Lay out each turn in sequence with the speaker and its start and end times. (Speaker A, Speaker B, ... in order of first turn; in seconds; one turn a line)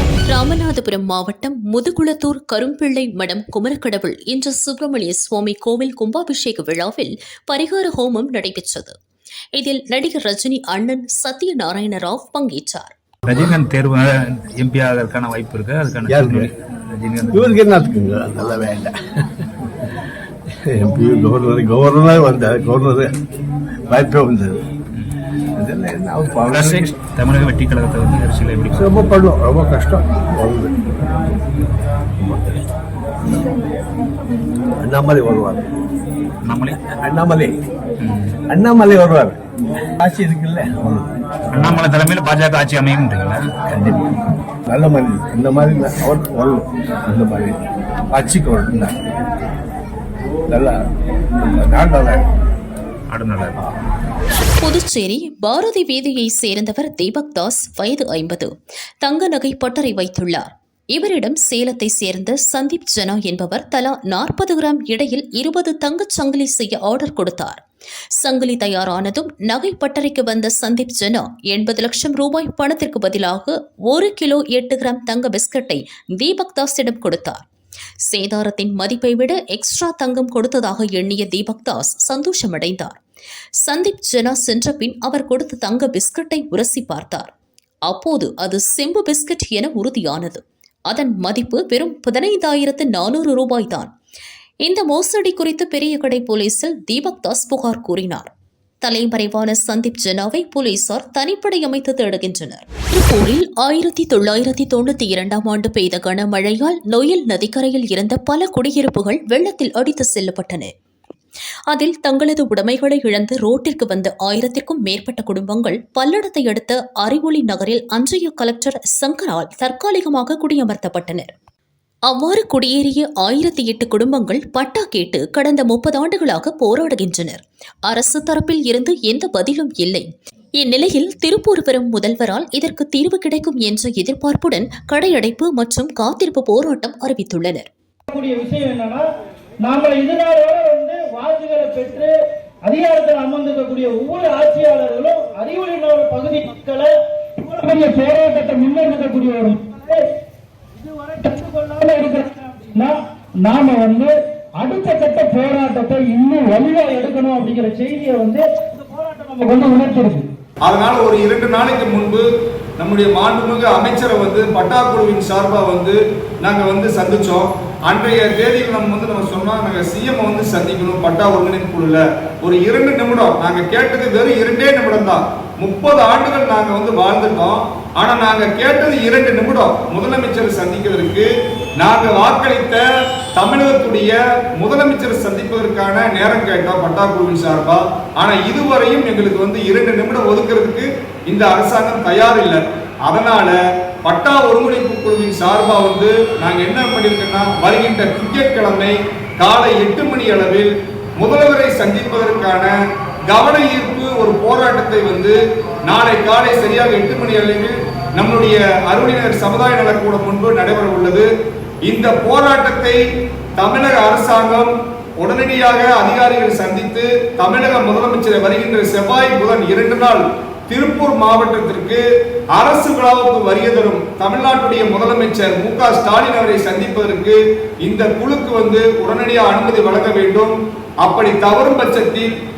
Speaker A: 0.3-9.0
Speaker A: 9.6-12.9
Speaker B: 13.3-17.6
Speaker C: 16.1-16.5
Speaker C: 17.3-19.2
Speaker C: 20.6-23.2
Speaker C: 23.9-24.6
Speaker C: 25.6-26.9
Speaker B: 26.5-29.0
Speaker C: 28.7-30.8
Speaker C: 32.2-32.7
Speaker C: 33.2-33.5
Speaker C: 34.8-35.7
Speaker B: 36.5-36.8
Speaker C: 36.8-37.5
Speaker B: 38.0-38.4
Speaker C: 38.5-39.4
Speaker C: 40.0-41.9
Speaker B: 41.5-43.4
Speaker C: 43.7-44.1
Speaker C: 44.7-48.9
Speaker C: 50.5-50.8
Speaker C: 51.4-52.3
Speaker B: 53.1-53.6
Speaker A: 54.6-58.5
Speaker A: 59.0-67.6
Speaker A: 68.2-77.5
Speaker A: 78.1-83.0
Speaker A: 83.7-87.3
Speaker A: 87.9-93.9
Speaker A: 94.7-98.3
Speaker A: 98.8-110.7
Speaker A: 111.7-121.3
Speaker A: 122.1-130.1
Speaker A: 130.6-137.7
Speaker D: 138.1-139.1
Speaker D: 139.7-142.1
Speaker D: 142.7-150.0
Speaker D: 150.8-160.3
Speaker E: 160.7-162.2
Speaker E: 162.8-181.3
Speaker E: 181.8-182.8
Speaker E: 183.4-202.7
Speaker E: 203.3-205.3
Speaker E: 205.9-211.3
Speaker E: 211.9-213.0
Speaker E: 213.6-222.0
Speaker E: 222.6-232.3